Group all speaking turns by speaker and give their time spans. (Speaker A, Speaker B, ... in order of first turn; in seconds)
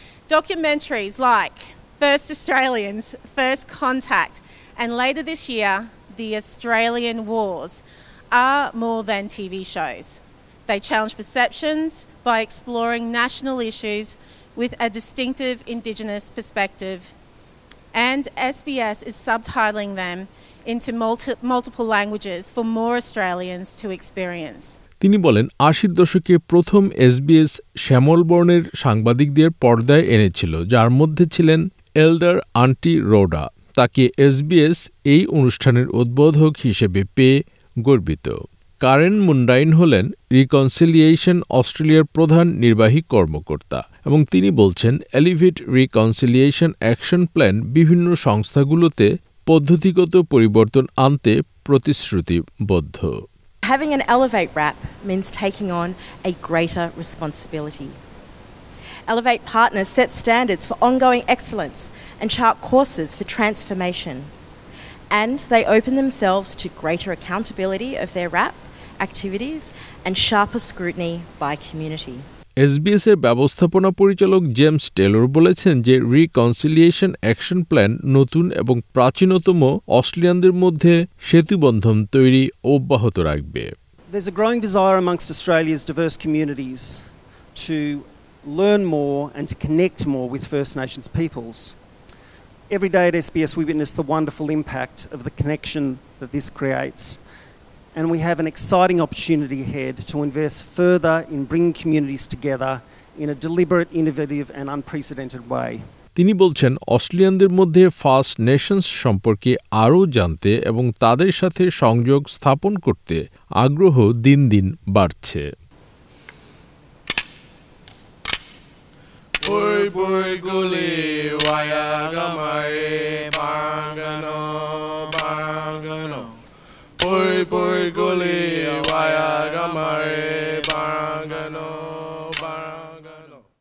Speaker A: 0.3-17.1, 17.9-24.8
Speaker B: 25.0-53.2, 72.6-83.7, 106.2-115.5
Speaker C: 53.6-58.0, 59.1-64.3, 65.1-72.3
Speaker D: 84.1-87.0, 87.5-91.8, 92.7-97.2, 98.0-105.8
Speaker E: 119.4-126.2, 127.0-133.3